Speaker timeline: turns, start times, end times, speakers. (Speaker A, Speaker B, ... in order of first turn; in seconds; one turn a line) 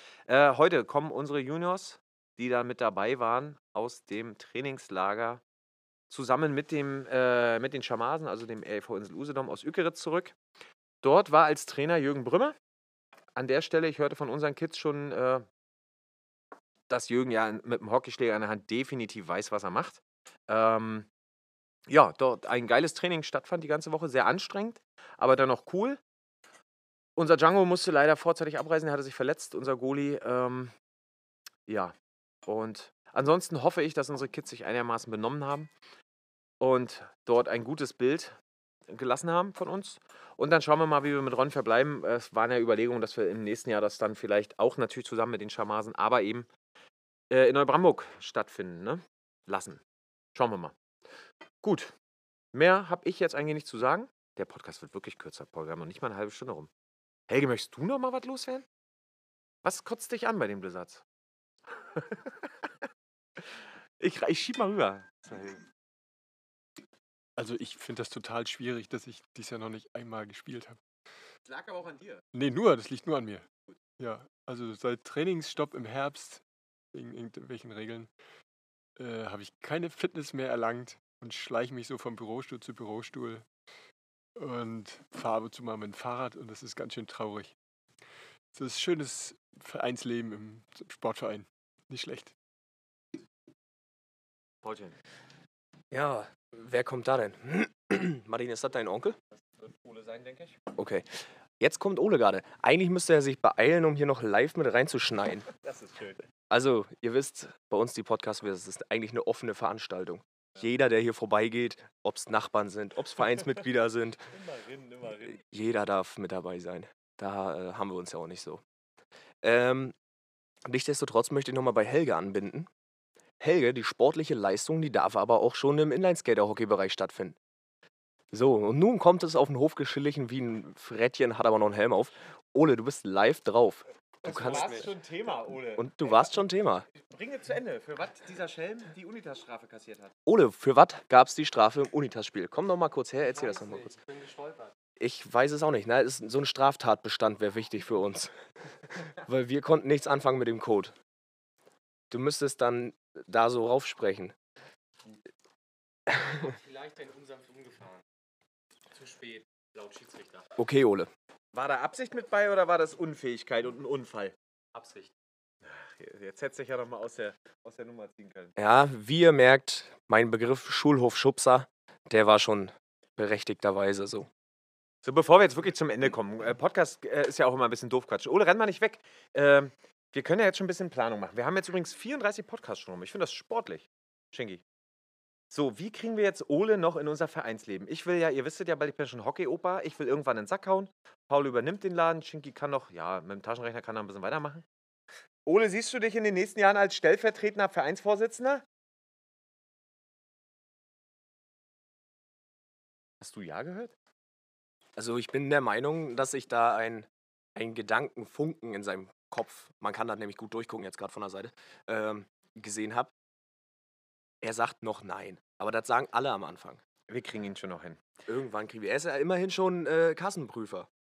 Speaker A: 0.3-5.4
Speaker A: 6.1-10.3
Speaker A: 11.0-12.6
Speaker A: 13.3-15.4
Speaker A: 16.9-21.1
Speaker A: 21.9-26.0
Speaker A: 27.1-30.7
Speaker A: 31.7-31.9
Speaker A: 32.5-35.7
Speaker A: 36.6-38.4
Speaker A: 38.9-46.5
Speaker A: 47.3-49.8
Speaker A: 50.3-50.7
Speaker A: 51.6-51.9
Speaker A: 52.5-56.7
Speaker A: 57.3-58.7
Speaker A: 59.6-61.0
Speaker A: 61.8-62.5
Speaker A: 64.0-65.6
Speaker B: 67.3-70.8
Speaker A: 71.5-72.2
Speaker B: 72.3-73.5
Speaker B: 74.0-76.4
Speaker B: 76.9-78.1
Speaker B: 79.0-83.5
Speaker B: 84.4-87.5
Speaker B: 88.5-92.3
Speaker A: 94.6-95.0
Speaker C: 95.9-99.2
Speaker A: 99.3-100.6
Speaker C: 100.8-105.5
Speaker A: 105.6-106.2
Speaker C: 106.5-114.3
Speaker A: 114.3-115.4
Speaker C: 115.3-118.6
Speaker C: 119.4-119.9
Speaker C: 120.7-122.7
Speaker C: 123.4-127.4
Speaker C: 128.3-134.9
Speaker A: 134.2-136.3
Speaker C: 135.8-136.8
Speaker A: 136.9-140.1
Speaker C: 140.2-144.0
Speaker C: 145.0-148.3
Speaker C: 149.1-150.9
Speaker C: 152.1-154.3
Speaker A: 156.4-157.9
Speaker A: 158.9-160.5
Speaker C: 160.6-161.1
Speaker A: 161.5-165.1
Speaker A: 165.6-168.5
Speaker C: 168.6-174.3
Speaker A: 175.0-184.6
Speaker A: 185.5-194.7
Speaker A: 195.4-198.6
Speaker A: 203.2-203.9
Speaker C: 204.9-213.1
Speaker C: 214.4-216.8
Speaker A: 217.1-218.0
Speaker C: 218.3-220.9